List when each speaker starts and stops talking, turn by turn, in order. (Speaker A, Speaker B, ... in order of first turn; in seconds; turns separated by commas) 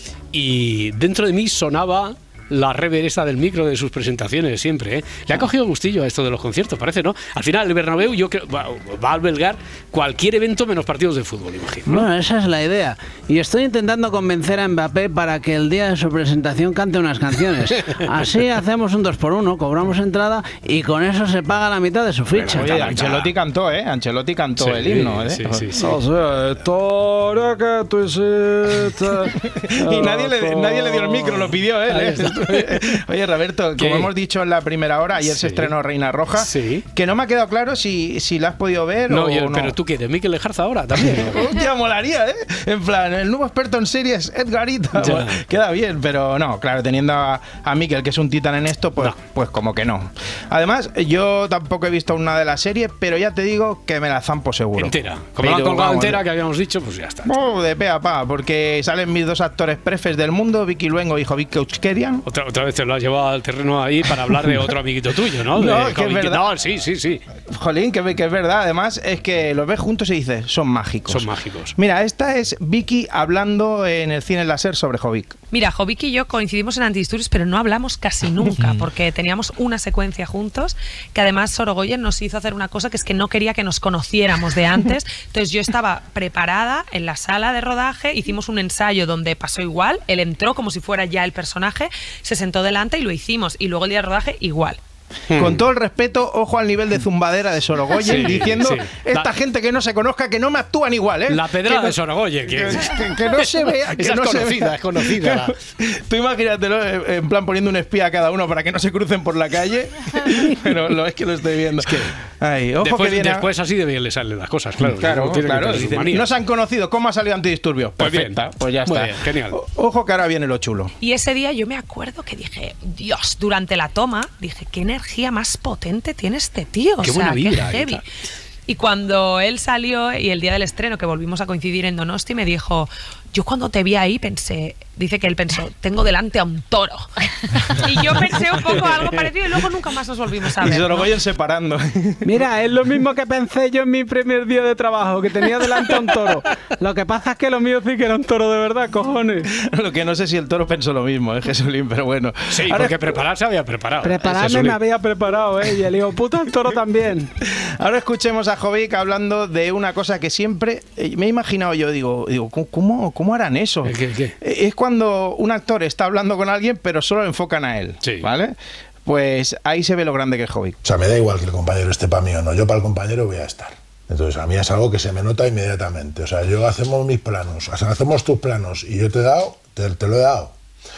Speaker A: 0.3-12.1, Speaker B: 11.9-23.2, Speaker A: 22.4-23.2, Speaker C: 22.5-25.7, Speaker A: 24.6-26.0, Speaker B: 25.8-31.4, Speaker C: 29.6-39.8, Speaker A: 31.9-32.8, Speaker A: 33.8-34.1, Speaker A: 35.3-35.7, Speaker A: 36.4-36.9, Speaker A: 39.1-41.5, Speaker C: 41.1-56.2, Speaker A: 45.0-45.4, Speaker A: 54.8-57.3, Speaker C: 57.2-62.2, Speaker A: 62.2-67.2, Speaker C: 65.5-66.5, Speaker C: 67.5-75.4, Speaker A: 71.1-71.8, Speaker D: 75.5-94.8, Speaker A: 95.3-95.6, Speaker C: 95.4-113.5, Speaker A: 98.0-99.3, Speaker A: 101.3-105.5, Speaker A: 111.8-112.1, Speaker A: 112.8-116.3, Speaker C: 115.0-120.9, Speaker A: 118.0-119.6, Speaker D: 121.0-128.0, Speaker A: 127.0-128.0, Speaker D: 128.7-141.1, Speaker C: 140.6-142.3, Speaker B: 142.2-149.4, Speaker C: 149.5-153.2, Speaker A: 152.5-154.8, Speaker B: 154.0-157.3, Speaker C: 157.6-168.6, Speaker A: 163.8-164.3, Speaker C: 169.1-170.8, Speaker E: 170.8-180.5